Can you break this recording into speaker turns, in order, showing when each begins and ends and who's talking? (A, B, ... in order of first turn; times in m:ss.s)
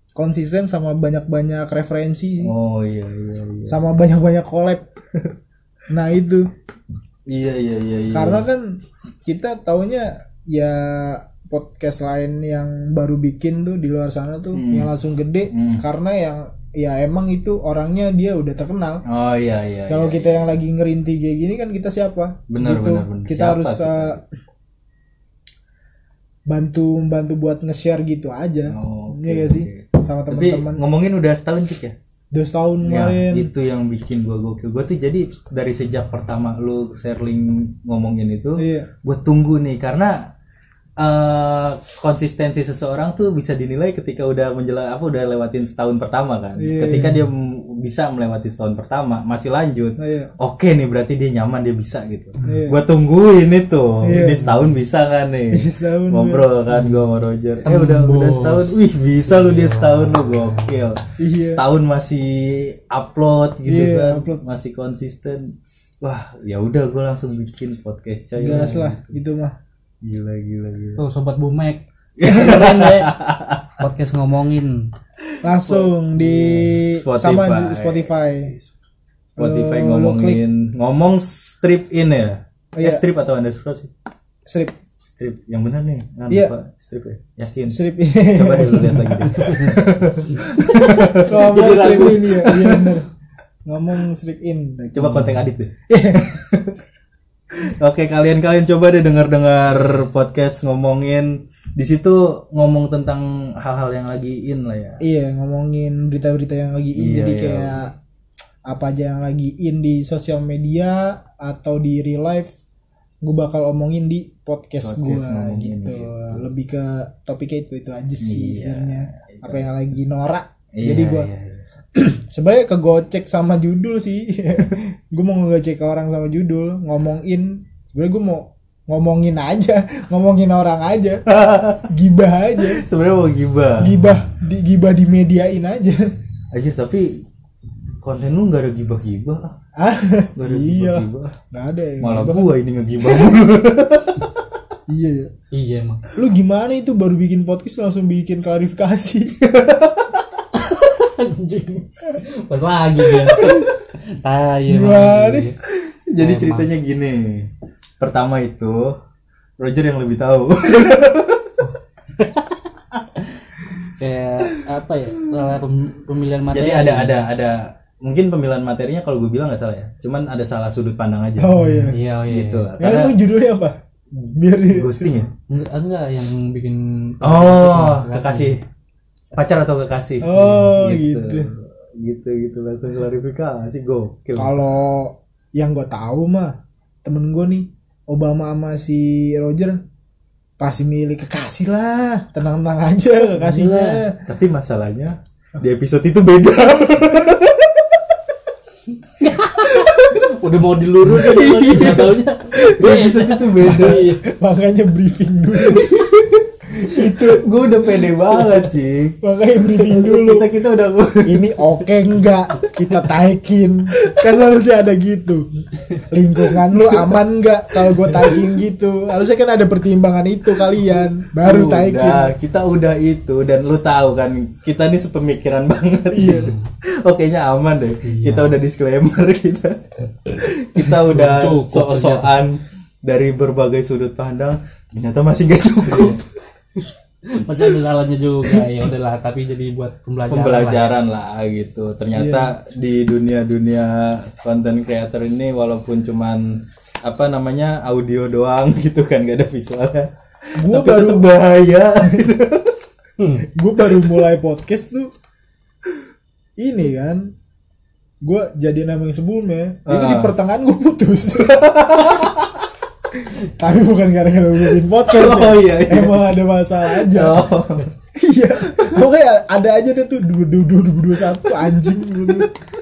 0:00.2-0:02.5 A
0:02.4-0:03.8 B
0:03.7-0:04.8 A
0:05.9-0:06.5 A
0:07.3-0:08.4 B
0:08.1-0:19.0 A
0:14.5-0:14.9 B
0:15.5-0:15.8 B
0:19.0-0:20.5 B
0:19.9-0:24.2 A
0:22.5-0:24.2 B
0:26.5-0:30.8 A
0:28.7-0:31.9 B
0:32.3-0:33.5 A
0:32.8-0:40.3 B
0:38.6-0:38.9 A
0:41.0-1:09.2 B
0:46.6-0:47.2 A
0:50.0-0:50.3 A
0:52.4-0:52.8 A
0:54.0-0:54.5 A
0:55.5-0:56.5 A
0:56.7-0:57.0 C
0:57.6-1:00.8 C
1:01.2-1:01.6 A
1:03.6-1:04.4 A
1:08.4-1:09.5 A
1:08.4-1:08.8 C
1:10.0-1:11.0 B
1:11.0-1:13.2 C
1:12.2-1:13.8 B
1:13.8-1:14.9 C
1:15.3-1:18.7 B
1:15.4-1:18.5 A
1:19.4-1:20.4 A
1:19.4-1:23.9 B
1:22.8-1:23.0 A
1:24.5-1:24.7 A
1:25.0-1:33.0 B
1:27.7-1:29.8 A
1:29.3-1:29.8 C
1:30.3-1:32.3 C
1:31.1-1:33.1 A
1:33.6-1:34.9 A
1:34.8-1:36.8 B
1:35.1-1:35.4 C
1:35.9-1:36.3 A
1:37.5-1:45.0 B
1:45.0-1:47.9 A
1:47.0-1:47.8 B
1:48.7-1:52.5 A
1:53.2-2:01.3 A
1:54.8-1:56.4 B
1:58.2-1:59.7 B
2:00.7-2:01.6 B
2:01.9-2:11.2 A
2:11.3-2:11.9 B
2:11.9-2:12.8 A
2:12.6-2:14.2 B
2:13.8-2:16.1 A
2:16.5-2:17.2 B
2:18.0-2:19.6 B
2:19.8-2:22.5 A
2:20.4-2:21.3 B
2:22.0-2:24.4 B
2:24.9-2:25.3 A
2:25.5-2:26.0 C
2:26.1-2:29.4 A
2:29.4-2:30.2 B
2:30.5-2:35.6 C
2:33.4-2:33.7 A
2:34.7-2:35.5 A
2:36.1-2:39.0 B
2:36.2-2:36.7 C
2:39.6-2:41.6 B
2:42.2-2:42.6 C
2:43.8-2:47.2 C
2:46.5-2:51.6 B
2:51.4-2:52.0 A
2:51.6-2:52.7 C
2:52.3-2:53.2 B
2:52.8-2:55.2 A
2:54.7-2:55.3 B
2:55.5-2:58.5 C
2:57.2-2:58.6 B
2:59.3-3:04.6 B
3:00.2-3:01.5 A
3:00.3-3:00.7 C
3:04.4-3:09.8 A
3:10.6-3:14.2 A
3:13.4-3:14.0 C
3:14.2-3:17.7 B
3:19.2-3:24.2 C
3:21.0-3:24.1 B
3:23.6-3:26.1 A
3:25.6-3:31.7 B
3:26.8-3:27.4 A
3:29.2-3:30.5 A
3:31.2-3:42.3 A
3:32.8-3:33.0 B
3:36.7-3:37.0 B
3:38.0-3:38.4 B
3:40.7-3:56.2 B
3:46.1-3:46.5 A
3:46.2-3:46.7 C
3:48.0-3:48.5 C
3:50.8-3:52.4 C
3:57.3-4:00.9 C
4:00.3-4:12.8 B
4:02.1-4:02.5 A
4:10.6-4:11.3 A
4:13.2-4:13.4 C
4:13.5-4:15.1 A
4:16.6-4:17.3 A
4:18.2-4:22.3 A
4:19.8-4:20.4 B
4:21.4-4:22.6 B
4:23.2-4:27.5 A
4:24.8-4:27.9 B
4:28.1-4:32.5 A
4:28.7-4:29.0 B
4:31.4-4:32.5 B